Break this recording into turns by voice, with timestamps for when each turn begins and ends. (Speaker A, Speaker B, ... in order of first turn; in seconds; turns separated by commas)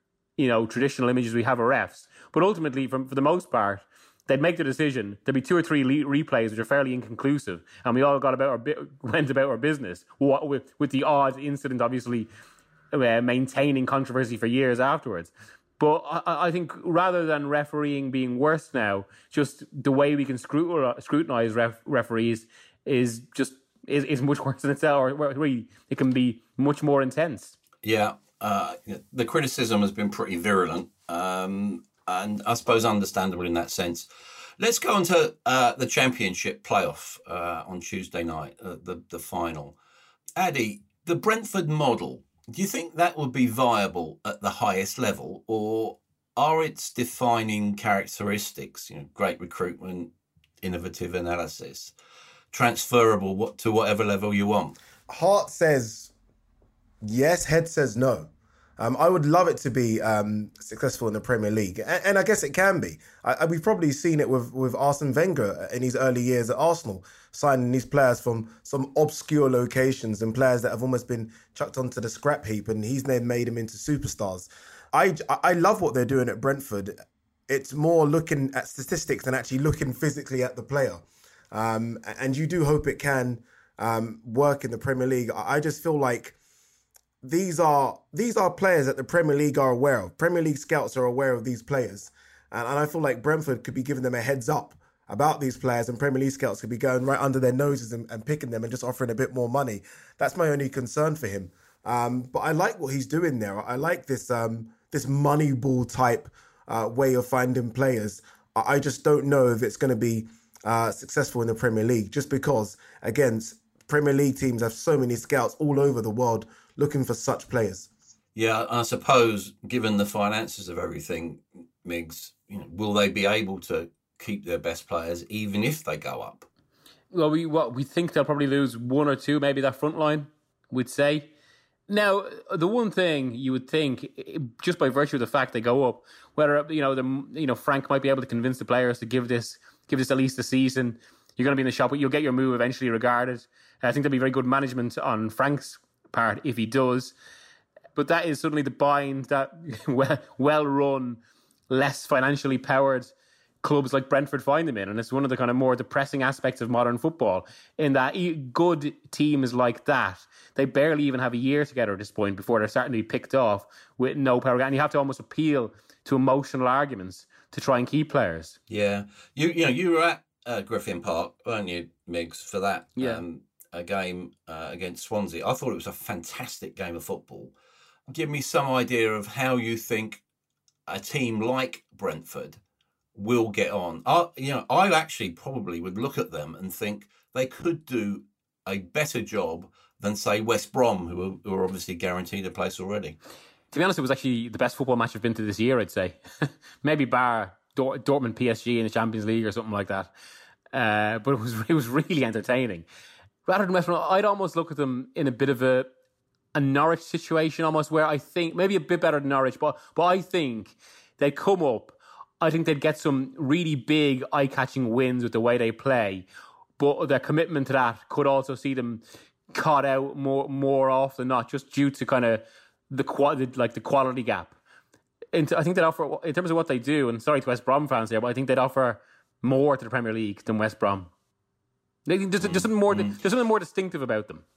Speaker A: 0.4-12.3, Speaker A: 12.9-27.5, Speaker B: 27.8-34.1, Speaker B: 34.6-39.8, Speaker B: 40.4-50.1, Speaker B: 50.6-51.9, Speaker B: 52.5-54.8, Speaker C: 55.1-56.1, Speaker C: 57.0-77.0, Speaker C: 77.5-86.3, Speaker C: 87.2-117.9, Speaker B: 118.3-126.5, Speaker A: 127.1-131.3, Speaker A: 131.9-147.1, Speaker A: 147.9-168.6, Speaker B: 168.7-177.5, Speaker A: 173.0-173.2, Speaker B: 178.1-180.2, Speaker B: 180.9-182.6, Speaker B: 183.1-193.2, Speaker A: 193.7-196.2, Speaker A: 196.8-200.1, Speaker A: 200.7-202.8, Speaker A: 203.5-205.9, Speaker A: 206.6-216.3, Speaker A: 216.8-224.6, Speaker A: 225.3-231.1, Speaker A: 232.1-234.4, Speaker B: 232.4-233.2